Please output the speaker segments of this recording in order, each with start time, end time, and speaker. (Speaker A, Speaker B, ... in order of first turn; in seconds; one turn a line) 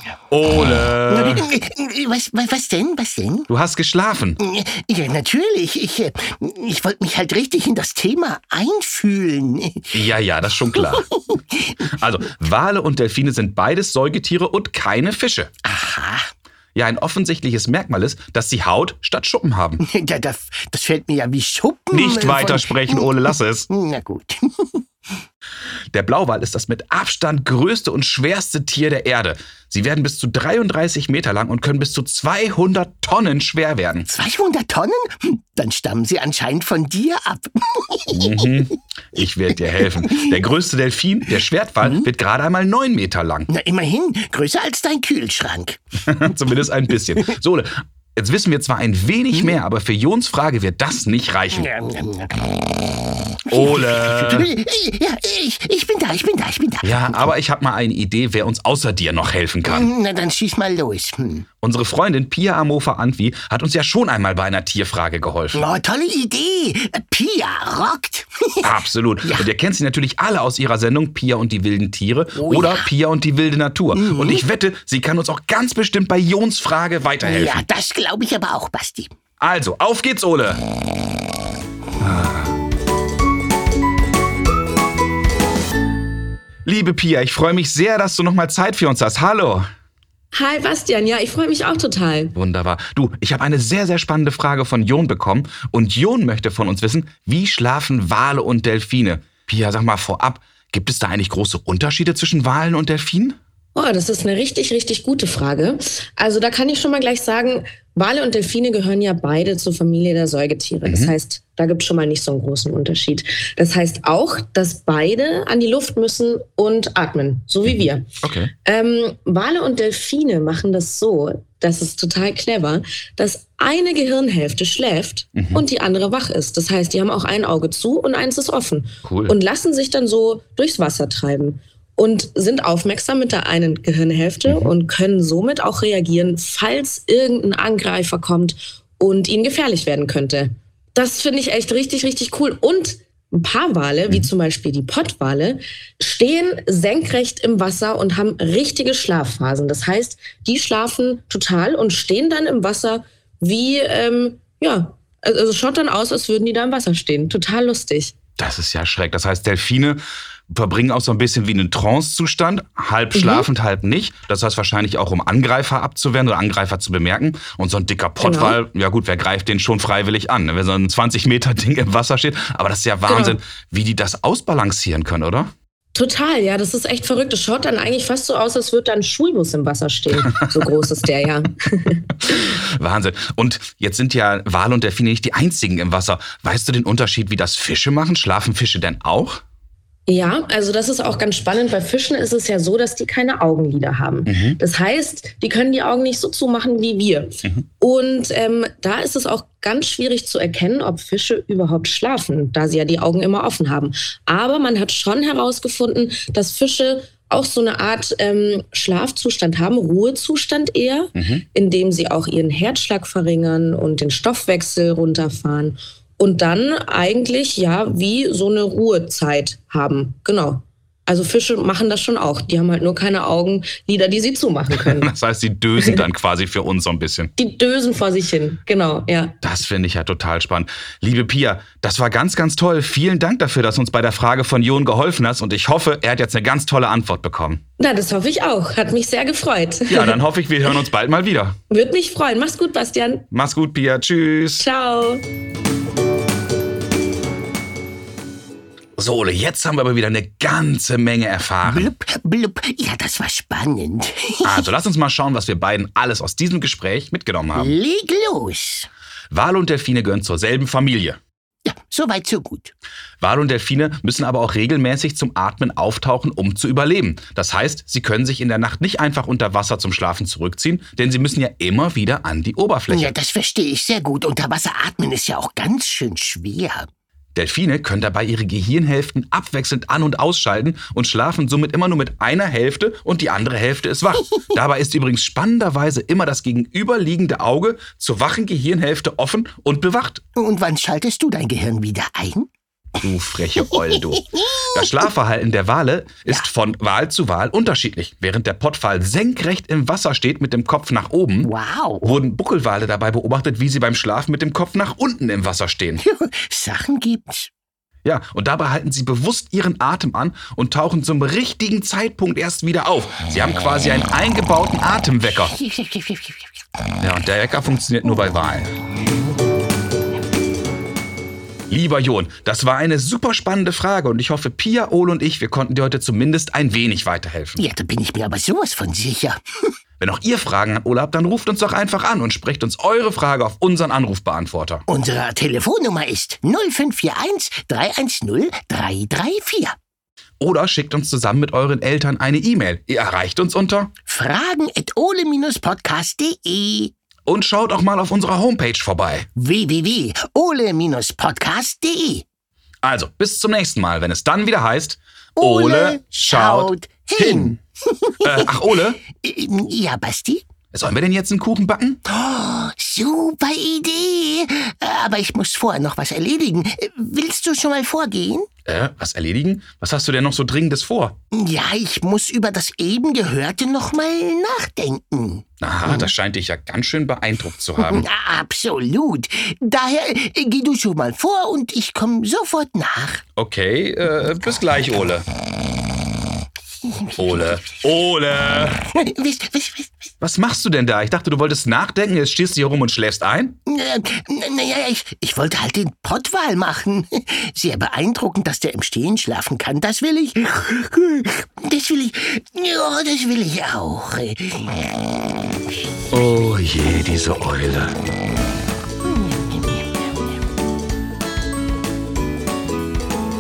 Speaker A: 0.3-1.5
Speaker B: 1.1-3.5
Speaker A: 3.5-4.4
Speaker B: 4.4-10.0
Speaker A: 9.9-11.1
Speaker B: 10.8-11.7
Speaker A: 11.9-15.5
Speaker B: 15.7-16.3
Speaker A: 16.8-19.8
Speaker B: 19.8-24.8
Speaker A: 21.9-23.7
Speaker A: 25.9-34.1
Speaker B: 34.1-38.2
Speaker A: 38.1-43.5
Speaker B: 39.8-40.4
Speaker B: 41.8-42.1
Speaker B: 43.5-45.8
Speaker A: 46.0-51.7
Speaker B: 51.5-52.8
Speaker B: 53.5-57.3
Speaker A: 53.5-54.5
Speaker A: 56.8-59.9
Speaker B: 59.6-61.5
Speaker A: 61.6-65.7
Speaker B: 65.5-68.7
Speaker A: 68.6-77.6
Speaker B: 72.4-72.9
Speaker B: 73.9-74.5
Speaker B: 77.2-79.1
Speaker A: 79.4-80.6
Speaker A: 82.0-82.5
Speaker A: 86.7-89.7
Speaker C: 90.3-92.3
Speaker A: 92.3-103.4
Speaker C: 103.8-158.1
Speaker A: 110.9-111.1
Speaker A: 118.2-118.5
Speaker A: 125.3-125.6
Speaker A: 129.0-129.4
Speaker A: 134.5-134.7
Speaker A: 158.4-175.5
Speaker C: 163.1-163.5
Speaker C: 168.2-168.6
Speaker C: 173.1-173.4
Speaker C: 175.9-182.4
Speaker A: 182.3-189.4
Speaker C: 190.1-225.1
Speaker A: 194.3-194.6
Speaker A: 211.2-211.4
Speaker A: 224.7-227.3
Speaker C: 227.4-229.4
Speaker A: 229.4-237.6
Speaker C: 237.8-240.2
Speaker A: 239.9-241.6
Speaker C: 241.7-243.3
Speaker A: 243.3-244.7
Speaker C: 244.6-245.2
Speaker A: 249.0-251.9
Speaker B: 251.6-254.7
Speaker A: 254.4-257.8
Speaker B: 257.5-258.9
Speaker A: 259.3-261.2
Speaker B: 261.7-262.7
Speaker A: 263.2-273.2
Speaker B: 272.9-276.9
Speaker A: 277.4-290.2
Speaker B: 290.4-292.5
Speaker A: 293.0-301.5
Speaker B: 301.4-302.1
Speaker A: 302.0-306.0
Speaker B: 306.0-307.5
Speaker A: 308.1-315.5
Speaker B: 315.4-316.6
Speaker A: 317.0-318.7
Speaker A: 321.7-327.6
Speaker B: 327.6-329.4
Speaker A: 330.0-334.8
Speaker B: 334.9-339.8
Speaker A: 340.4-343.9
Speaker B: 344.1-346.9
Speaker A: 347.3-349.3
Speaker B: 349.4-352.2
Speaker A: 352.8-357.6
Speaker B: 355.4-358.5
Speaker A: 358.2-359.0
Speaker B: 359.1-360.4
Speaker A: 360.7-362.0
Speaker B: 362.1-368.5
Speaker A: 368.7-371.1
Speaker B: 371.3-376.1
Speaker A: 375.6-378.1
Speaker B: 377.8-383.2
Speaker A: 383.4-385.2
Speaker B: 386.8-387.9
Speaker A: 387.2-388.8
Speaker B: 388.9-390.1
Speaker A: 390.2-393.6
Speaker B: 393.7-404.9
Speaker A: 406.1-408.0
Speaker B: 409.1-410.0